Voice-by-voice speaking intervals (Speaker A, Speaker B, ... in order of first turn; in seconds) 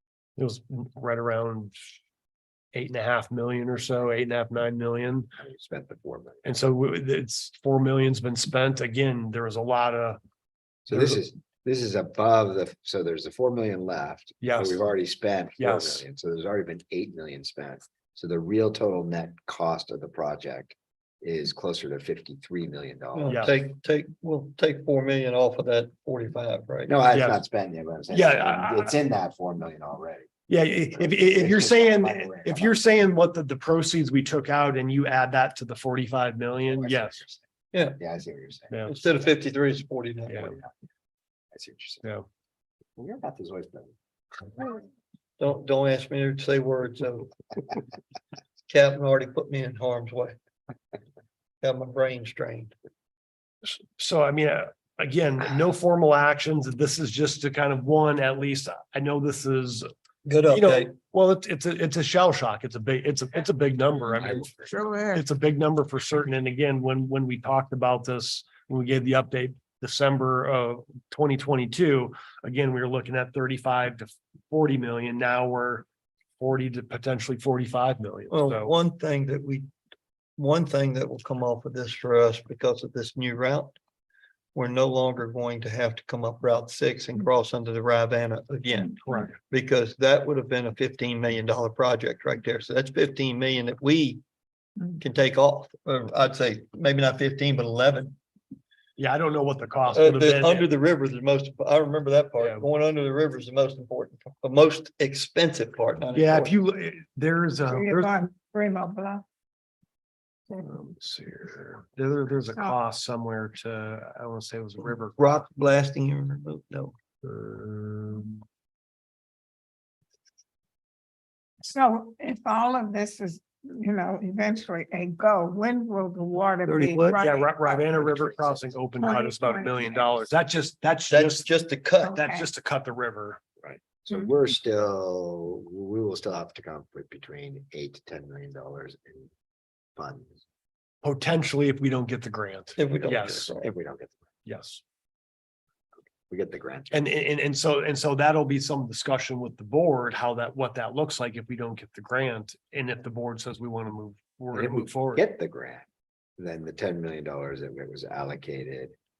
Speaker A: 0.4-1.7, 2.7-5.3, 6.4-10.2, 10.9-11.2, 14.4-14.8, 15.6-16.0, 23.3-23.6, 27.1-27.4, 28.1-28.9, 30.5-37.3, 40.3-40.5, 53.6-59.9, 60.5-75.9, 76.4-78.7, 89.0-89.3, 99.0-100.7, 102.4-102.6, 106.1-108.2, 110.5-115.2, 117.2-118.4, 127.2-131.5, 132.0-133.4, 141.0-143.6, 144.4-144.8, 146.9-155.3
Speaker B: 5.4-6.5, 10.9-23.4, 26.9-30.3, 31.0-32.9, 36.7-37.4, 38.0-39.4, 41.5-42.1, 43.0-44.0, 133.6-139.3, 139.9-140.3, 142.9-144.2, 146.3-147.0, 154.5-155.8, 156.4-158.9
Speaker C: 23.1-26.9, 37.7-38.0, 38.9-40.6, 45.4-47.3, 48.7-50.4, 51.6-52.7, 60.2-60.9, 78.3-79.7, 80.4-83.7, 84.5-94.2, 95.0-98.1, 99.9-106.5, 115.2-116.9, 126.7-127.2, 131.1-132.1, 142.8-143.7
Speaker D: 107.7-109.2, 121.6-127.5, 129.0-129.9, 132.0-132.5